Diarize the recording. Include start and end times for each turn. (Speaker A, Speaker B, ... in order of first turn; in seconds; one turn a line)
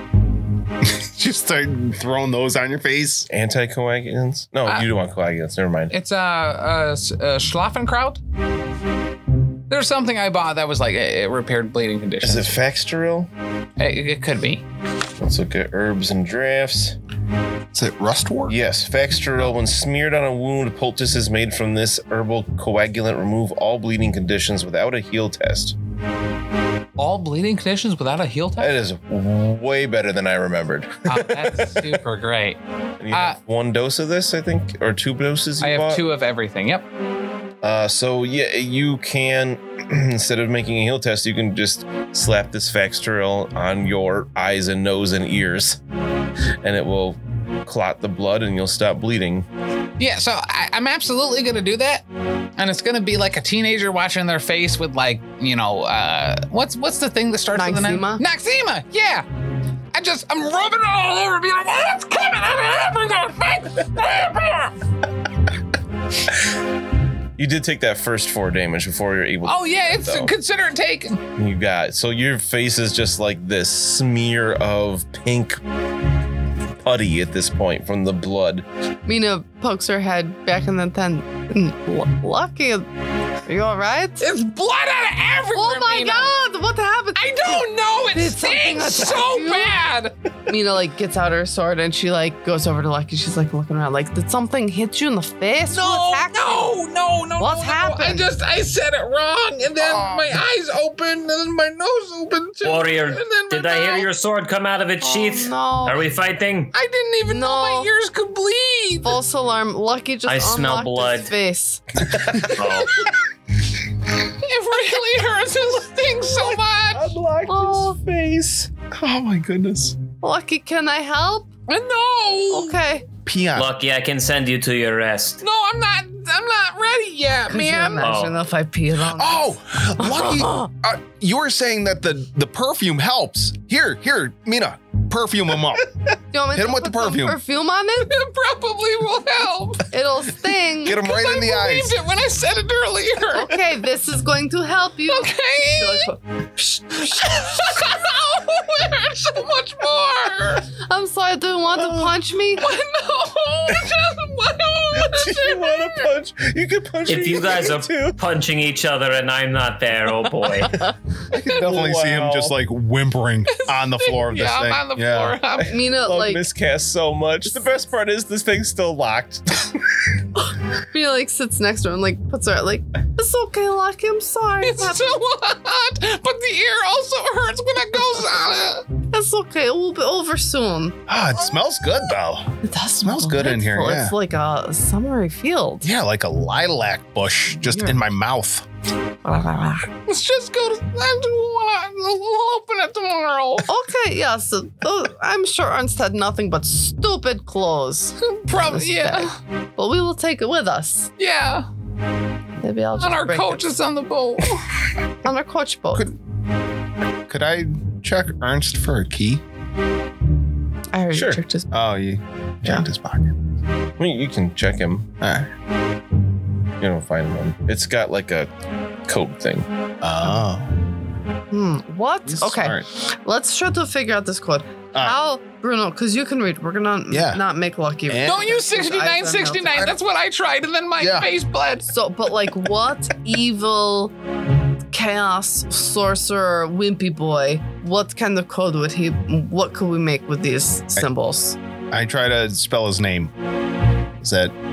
Speaker A: 0.8-3.3
Speaker B: 3.3-5.9
Speaker C: 5.9-8.2
Speaker C: 9.7-12.5
Speaker B: 12.2-13.3
Speaker C: 13.8-14.6
Speaker B: 15.2-16.9
Speaker A: 17.7-18.6
Speaker B: 18.5-25.7
Speaker C: 27.0-28.8
Speaker B: 28.6-32.0
Speaker C: 31.1-32.6
Speaker B: 33.0-36.0
Speaker C: 33.1-33.4
Speaker C: 35.6-36.9
Speaker B: 37.6-45.8
Speaker B: 46.6-49.5
Speaker C: 50.0-52.0
Speaker C: 52.6-59.2
Speaker D: 57.5-58.2
Speaker C: 59.9-64.7
Speaker B: 67.4-70.3
Speaker C: 69.4-71.2
Speaker B: 71.3-75.6
Speaker B: 76.8-78.6
Speaker D: 79.1-82.9
Speaker D: 83.5-84.3
Speaker C: 84.2-86.3
Speaker D: 85.5-89.8
Speaker C: 87.2-90.1
Speaker D: 90.5-96.8
Speaker C: 95.7-104.1
Speaker D: 97.4-98.3
Speaker A: 99.8-100.3
Speaker E: 102.6-106.7
Speaker D: 105.0-106.0
Speaker C: 106.7-109.2
Speaker D: 107.3-107.9
Speaker D: 109.0-112.6
Speaker E: 110.2-111.3
Speaker E: 112.3-113.1
Speaker C: 114.2-117.1
Speaker B: 116.3-118.7
Speaker D: 117.5-118.0
Speaker A: 118.9-120.0
Speaker D: 120.2-121.5
Speaker C: 121.7-122.8
Speaker D: 122.5-123.1
Speaker A: 123.2-123.7
Speaker E: 123.5-125.4
Speaker C: 125.4-128.1
Speaker D: 127.5-130.7
Speaker E: 128.0-128.3
Speaker A: 129.1-136.0
Speaker D: 136.3-138.1
Speaker A: 136.5-137.4
Speaker C: 138.0-139.9
Speaker D: 139.9-141.1
Speaker A: 140.8-142.0
Speaker C: 140.9-143.6
Speaker D: 143.3-147.8
Speaker C: 145.1-146.1
Speaker C: 147.0-150.7
Speaker D: 150.8-152.7
Speaker C: 152.6-156.0
Speaker B: 154.9-158.2
Speaker E: 157.1-160.9
Speaker A: 161.3-165.4
Speaker B: 161.3-162.5
Speaker C: 163.5-165.8
Speaker B: 165.6-169.8
Speaker D: 165.7-166.4
Speaker D: 170.4-175.2
Speaker C: 174.6-178.9
Speaker D: 179.0-181.0
Speaker A: 181.1-184.2
Speaker D: 182.6-185.9
Speaker A: 185.8-188.7
Speaker D: 187.6-188.0
Speaker D: 189.2-189.9
Speaker C: 190.1-193.7
Speaker D: 193.7-201.1
Speaker C: 198.2-199.3
Speaker C: 201.2-201.7
Speaker D: 202.6-203.6
Speaker C: 203.0-204.8
Speaker D: 205.2-206.1
Speaker A: 207.3-209.4
Speaker D: 210.9-211.7
Speaker B: 211.1-211.4
Speaker A: 211.7-213.3
Speaker B: 214.0-215.1
Speaker A: 215.2-215.5
Speaker B: 216.8-218.5
Speaker B: 219.1-219.7
Speaker A: 220.0-220.7
Speaker D: 221.5-229.9
Speaker A: 222.2-222.8
Speaker A: 227.1-227.4
Speaker A: 228.1-228.5
Speaker C: 228.2-231.9
Speaker A: 231.0-231.3
Speaker D: 231.9-234.1
Speaker D: 234.9-241.6
Speaker A: 241.9-243.3
Speaker A: 244.2-244.5